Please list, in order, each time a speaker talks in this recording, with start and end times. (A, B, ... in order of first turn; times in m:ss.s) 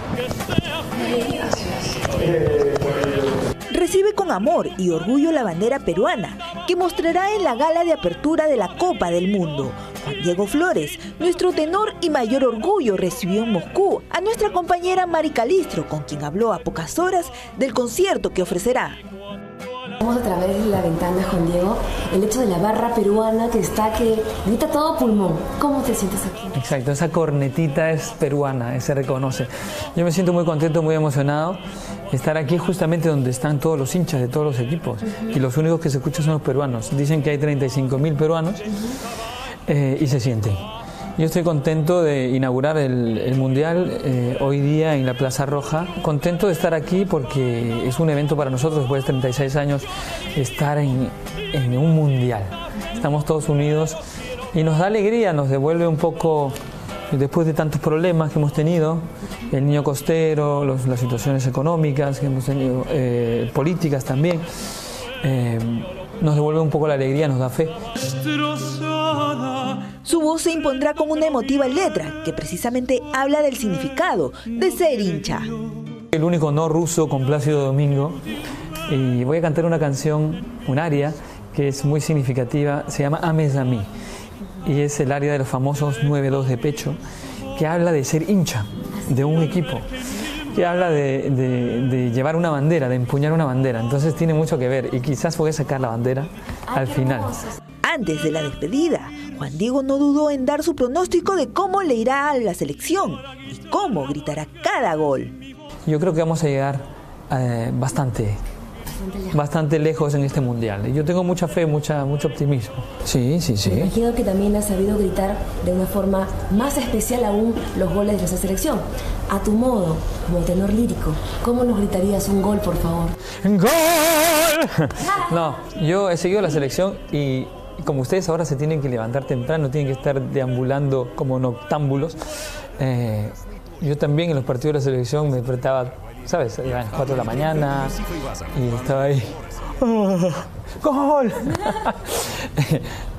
0:01.0-0:02.0 A
0:03.7-0:19.0 B
0:20.0-0:26.6 A
0:26.6-0:31.6 C
0:32.1-0:38.7 C
0:39.7-0:40.6 C
0:41.2-0:54.0 C
0:54.5-0:56.6 C
0:57.1-1:04.4 C
1:05.2-1:07.8 C
1:10.0-1:15.5 B
1:16.1-1:18.2 C
1:18.9-1:23.9 C
1:24.6-1:27.0 C
1:27.6-1:29.9 C
1:30.5-1:37.5 C
1:36.7-1:37.5 A
1:37.8-1:45.4 B
1:45.8-1:48.4 C
1:48.9-1:49.4 A
1:49.3-1:53.9 C
1:53.6-2:03.2 A
2:03.4-2:12.2 C
2:12.8-2:18.0 C
2:18.5-2:22.9 C